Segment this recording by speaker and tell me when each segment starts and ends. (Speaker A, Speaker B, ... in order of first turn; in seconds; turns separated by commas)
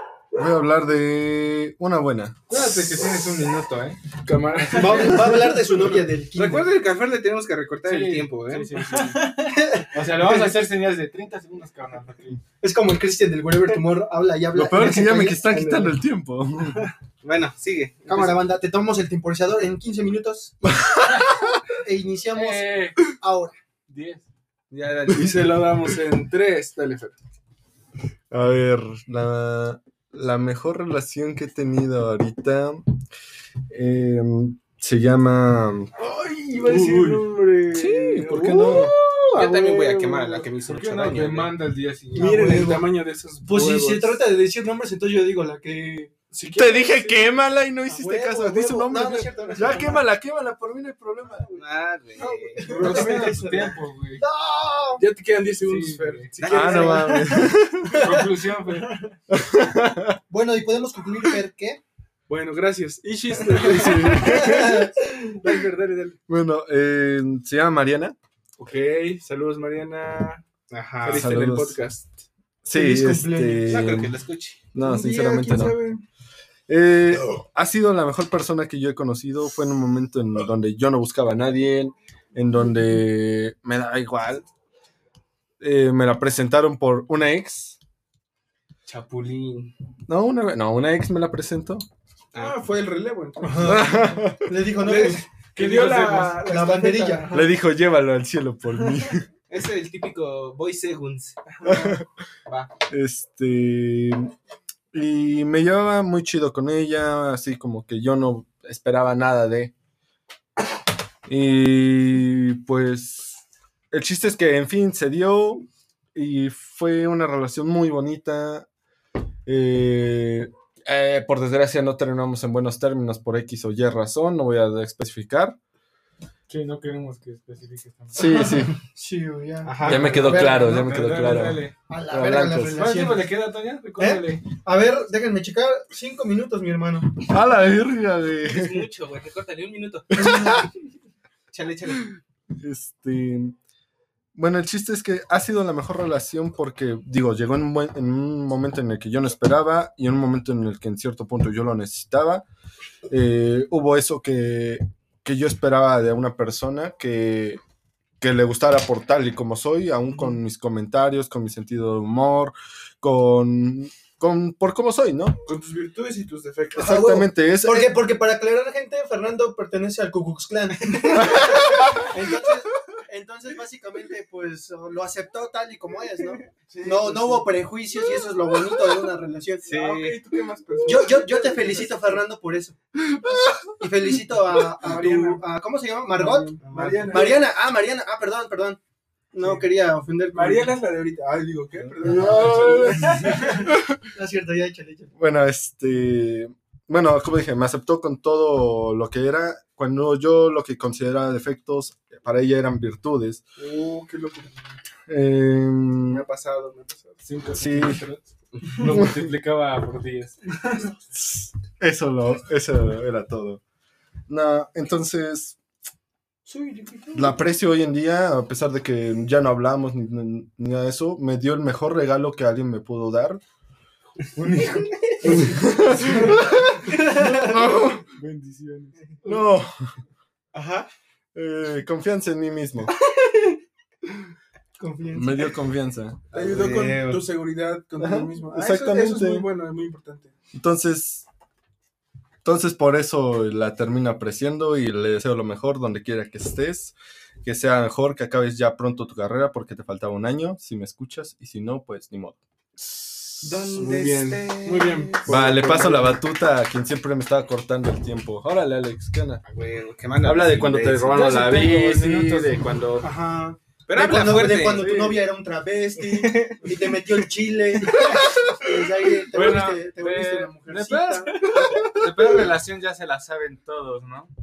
Speaker A: 0.3-2.4, Speaker B: 2.5-5.4, Speaker C: 4.2-5.4, Speaker D: 4.8-6.7, Speaker E: 6.3-8.7, Speaker B: 7.8-9.4, Speaker C: 8.9-9.6, Speaker D: 9.5-10.6, Speaker B: 9.9-12.4, Speaker D: 12.6-16.0, Speaker A: 14.5-16.9, Speaker E: 17.2-18.4, Speaker D: 18.1-20.9, Speaker A: 20.9-21.5, Speaker D: 21.8-23.6, Speaker B: 22.3-23.0, Speaker B: 23.9-24.2, Speaker E: 24.7-25.4, Speaker C: 25.1-27.1, Speaker A: 28.3-32.9, Speaker A: 33.7-35.9, Speaker C: 36.0-40.5, Speaker B: 37.8-38.9, Speaker A: 38.3-38.9, Speaker E: 38.4-41.5, Speaker B: 40.7-42.8, Speaker C: 42.1-44.2, Speaker D: 42.2-42.9, Speaker D: 43.4-46.2, Speaker C: 46.3-47.3, Speaker A: 46.4-51.5, Speaker D: 48.0-50.0, Speaker E: 51.5-53.2, Speaker D: 52.2-55.0, Speaker C: 52.6-53.7, Speaker B: 52.7-54.2, Speaker C: 55.0-57.3, Speaker B: 55.6-56.3, Speaker E: 56.4-57.3, Speaker A: 56.5-58.1, Speaker D: 56.5-57.3, Speaker B: 57.9-59.0, Speaker A: 59.3-60.2, Speaker D: 60.3-61.8, Speaker C: 62.3-64.8, Speaker A: 63.6-64.9, Speaker D: 64.1-65.5, Speaker C: 65.4-66.2, Speaker A: 66.3-68.2, Speaker C: 68.6-70.4, Speaker E: 70.7-71.3, Speaker C: 71.0-72.1, Speaker A: 71.1-71.8, Speaker A: 72.6-74.2, Speaker D: 72.7-73.7, Speaker E: 73.7-74.6, Speaker A: 74.8-75.8, Speaker C: 74.8-76.0, Speaker A: 76.7-84.5, Speaker A: 85.6-87.8, Speaker E: 88.9-89.7, Speaker A: 90.1-91.9, Speaker E: 92.3-92.6, Speaker C: 92.4-94.0, Speaker D: 93.4-95.3, Speaker A: 93.6-94.6, Speaker C: 94.8-97.5, Speaker B: 95.6-96.4, Speaker D: 96.4-97.3, Speaker A: 97.3-99.3, Speaker E: 99.5-101.4, Speaker C: 101.5-102.0, Speaker A: 101.6-102.1, Speaker A: 102.9-104.3, Speaker A: 104.9-109.7, Speaker A: 111.3-118.7, Speaker A: 119.5-125.6, Speaker B: 126.5-128.5, Speaker A: 128.2-128.7, Speaker D: 128.2-130.7, Speaker E: 129.6-130.4, Speaker A: 129.8-133.0, Speaker B: 130.1-131.7, Speaker D: 131.9-133.3, Speaker B: 132.7-134.5, Speaker D: 134.0-137.2, Speaker A: 137.2-138.9, Speaker E: 138.5-140.6, Speaker A: 140.1-140.7, Speaker E: 141.5-142.1, Speaker A: 142.6-143.6, Speaker A: 144.3-152.4, Speaker A: 153.1-157.6, Speaker A: 158.2-165.4, Speaker C: 165.5-166.9, Speaker A: 166.7-168.0, Speaker D: 166.8-179.7, Speaker A: 171.2-172.1, Speaker C: 176.6-177.6, Speaker E: 179.7-180.2, Speaker C: 179.7-182.2, Speaker D: 180.8-182.8, Speaker A: 183.1-183.6, Speaker D: 183.8-188.8, Speaker C: 184.8-185.4, Speaker C: 186.1-187.5, Speaker E: 186.6-187.4, Speaker D: 189.3-190.8, Speaker C: 189.4-189.7, Speaker C: 190.3-193.7, Speaker A: 192.0-194.0, Speaker D: 193.2-195.1, Speaker A: 195.2-203.4, Speaker C: 203.6-204.6, Speaker A: 205.1-206.2, Speaker C: 206.0-207.2, Speaker B: 207.2-210.4, Speaker A: 207.5-208.0, Speaker A: 208.9-209.2, Speaker C: 210.6-210.9, Speaker A: 211.2-213.6, Speaker A: 214.3-215.6, Speaker C: 216.5-217.3, Speaker A: 217.1-223.4, Speaker A: 224.4-228.1, Speaker D: 226.9-227.6, Speaker B: 228.2-228.9, Speaker A: 229.2-229.9, Speaker A: 231.3-232.9, Speaker D: 234.8-235.5, Speaker A: 235.1-236.3, Speaker E: 236.3-237.2, Speaker C: 236.3-240.3, Speaker A: 238.0-239.5, Speaker A: 240.5-241.3, Speaker A: 242.4-252.4, Speaker E: 253.4-255.6, Speaker C: 253.5-256.2, Speaker A: 255.3-259.4, Speaker E: 259.4-261.2, Speaker A: 260.2-263.1, Speaker B: 261.1-262.8, Speaker D: 263.0-271.5, Speaker E: 263.9-264.9, Speaker A: 264.8-265.1, Speaker E: 266.1-266.6, Speaker B: 269.3-274.3